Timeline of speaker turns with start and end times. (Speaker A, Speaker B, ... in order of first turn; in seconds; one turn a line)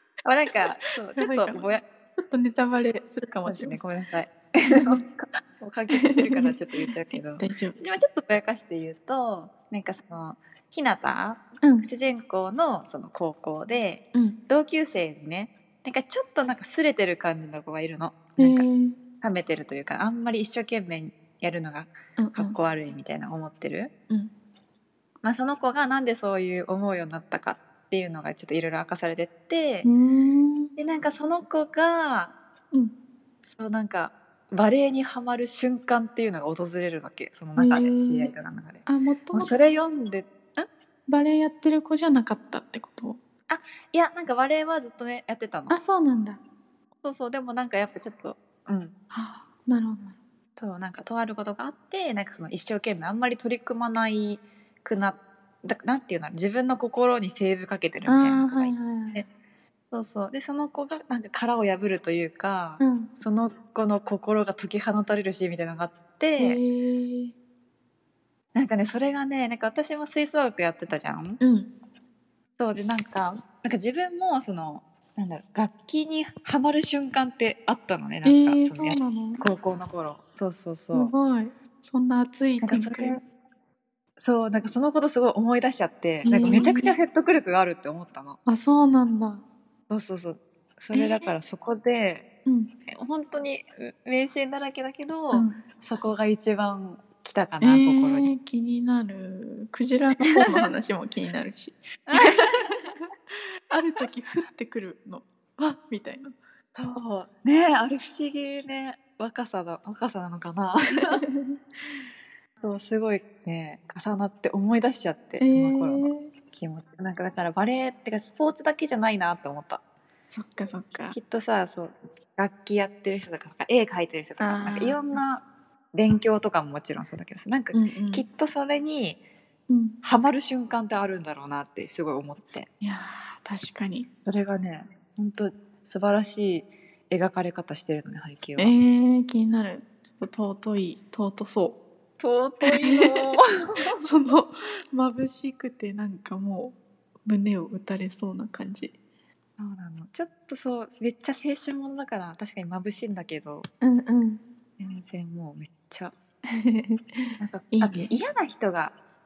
Speaker A: 0.2-1.8
Speaker B: 1.2-3.8
Speaker A: 3.5-18.7
Speaker B: 4.7-5.0
Speaker B: 5.9-7.8
Speaker B: 11.6-11.9
Speaker B: 18.4-19.0
Speaker A: 19.2-23.9
Speaker B: 22.2-22.6
Speaker A: 25.2-29.9
Speaker B: 29.8-30.7
Speaker A: 30.8-32.4
Speaker A: 33.5-40.7
Speaker B: 37.6-38.3
Speaker B: 38.9-39.5
Speaker B: 41.1-43.2
Speaker A: 43.5-45.8
Speaker B: 45.7-46.4
Speaker A: 47.0-48.9
Speaker B: 49.1-50.2
Speaker A: 50.6-59.3
Speaker B: 58.1-59.2
Speaker A: 59.9-66.6
Speaker B: 62.8-63.1
Speaker B: 66.4-67.3
Speaker A: 68.5-71.4
Speaker B: 71.4-71.7
Speaker A: 72.6-81.1
Speaker B: 78.2-79.4
Speaker B: 80.9-83.2
Speaker A: 82.6-83.2
Speaker A: 84.2-88.4
Speaker B: 86.2-87.0
Speaker B: 88.5-89.4
Speaker A: 89.9-92.2
Speaker B: 90.9-91.3
Speaker B: 92.5-92.7
Speaker A: 92.9-98.3
Speaker B: 95.3-95.6
Speaker B: 97.6-103.0
Speaker A: 102.1-102.9
Speaker B: 103.7-106.3
Speaker A: 106.8-111.2
Speaker B: 111.1-111.6
Speaker A: 112.6-119.8
Speaker B: 115.4-116.3
Speaker B: 120.3-121.2
Speaker A: 121.1-129.2
Speaker B: 124.4-125.0
Speaker B: 127.7-128.3
Speaker B: 129.7-130.0
Speaker A: 130.0-132.7
Speaker B: 132.8-134.1
Speaker A: 134.2-138.7
Speaker B: 138.6-141.8
Speaker A: 142.2-144.0
Speaker B: 142.6-143.3
Speaker B: 143.9-149.0
Speaker A: 149.6-153.7
Speaker B: 153.8-154.4
Speaker A: 154.8-156.1
Speaker B: 156.5-158.1
Speaker A: 157.4-159.0